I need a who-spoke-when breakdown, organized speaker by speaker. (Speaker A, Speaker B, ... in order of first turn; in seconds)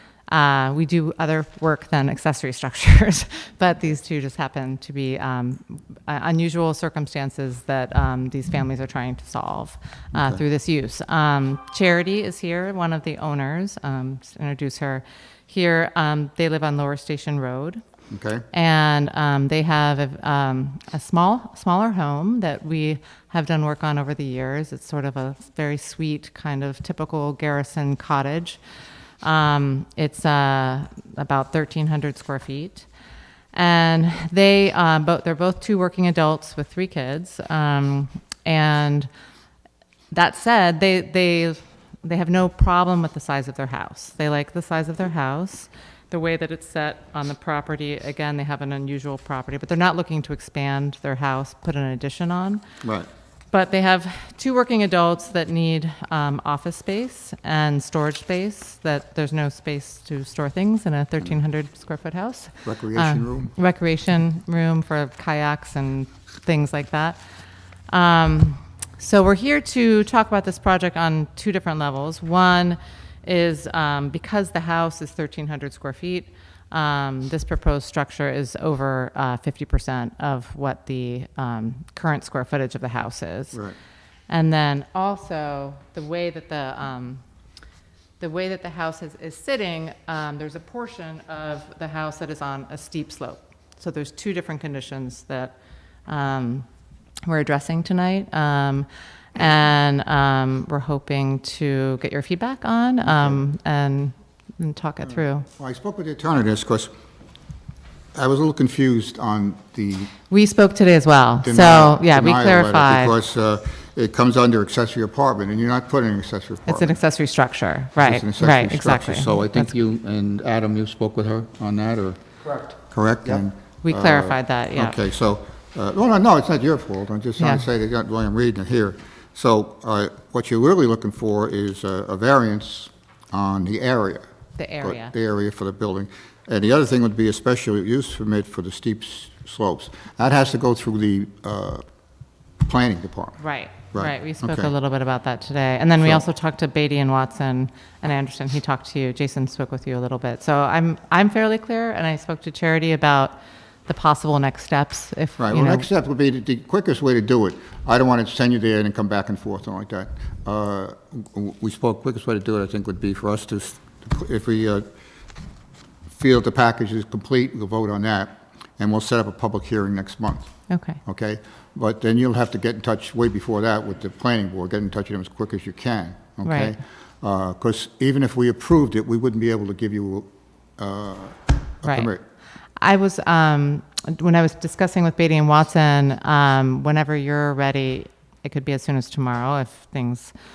Speaker A: 0.3-17.8, 18.5-28.6, 29.2-32.9, 33.5-39.1, 40.1-52.6, 53.5-67.2, 67.9-83.6, 84.3-87.2, 88.2-95.5, 96.1-96.7, 97.2-105.5, 110.3-113.1, 116.7-119.7, 123.8-125.0, 127.4-127.6, 134.6-135.1, 143.4-153.3, 153.9-155.8, 170.7-171.0, 176.4-176.7, 181.8-182.1, 182.8-190.3
Speaker B: 10.1-10.4, 18.1-18.4, 52.8-53.1, 62.6-63.5, 103.1-103.4, 105.6-106.9, 108.1-110.1, 111.4-117.0, 118.0-134.2, 134.8-141.8, 142.6-143.4, 143.9-144.7, 155.4-164.9, 166.1-170.5, 171.1-180.3, 180.8-182.2